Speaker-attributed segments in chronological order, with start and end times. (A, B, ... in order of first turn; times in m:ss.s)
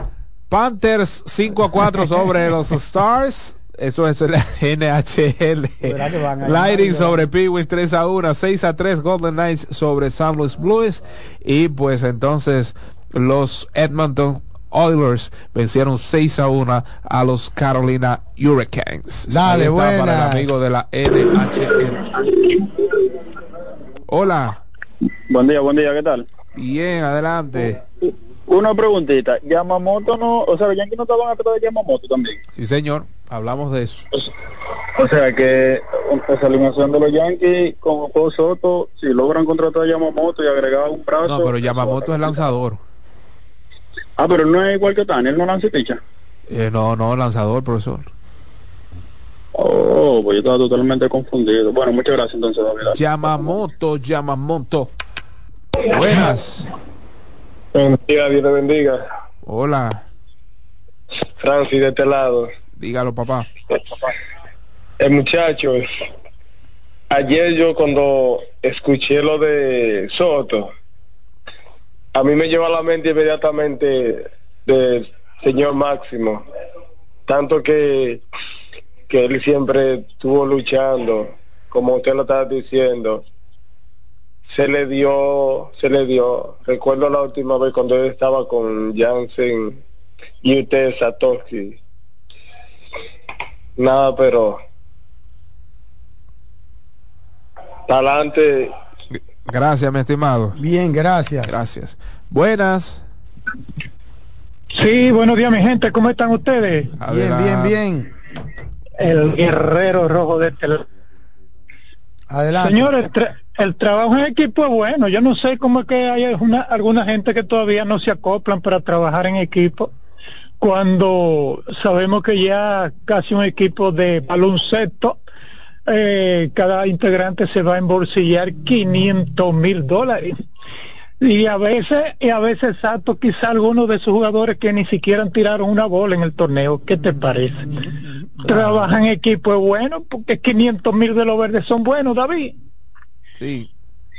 0:00.5-0:22.2 A
0:05.8-0:07.3 B
0:19.3-0:20.6 B
0:24.1-0:24.6 A
0:25.3-0:26.2 C
0:26.6-0:27.8 A
0:28.5-0:32.3 C
0:32.6-0:34.1 A
0:35.0-0:42.0 C
0:41.2-0:42.8 A
0:44.2-0:46.0 C
0:46.5-0:48.1 A
0:49.6-0:52.9 C
0:52.9-0:54.9 A
0:55.8-0:56.7 A
0:57.7-0:59.0 D
0:59.4-1:00.0 A
1:01.4-1:02.5 D
1:02.8-1:03.5 A
1:05.0-1:05.8 D
1:07.1-1:10.7 D
1:12.2-1:16.4 D
1:17.3-1:18.2 D
1:19.1-1:23.2 D
1:24.5-1:29.8 D
1:30.4-1:31.8 D
1:33.8-1:34.6 D
1:37.9-1:38.7 D
1:39.1-1:40.6 A
1:40.6-1:41.6 B
1:41.4-1:43.0 A
1:44.7-1:46.9 E
1:47.0-1:47.8 A
1:47.0-1:48.1 B
1:49.0-1:50.8 E
1:52.3-1:52.9 B
1:52.6-1:59.9 E
2:00.6-2:05.2 E
2:05.9-2:10.4 E
2:11.2-2:17.7 E
2:16.9-2:19.0 B
2:18.4-2:22.6 E
2:23.4-2:23.7 A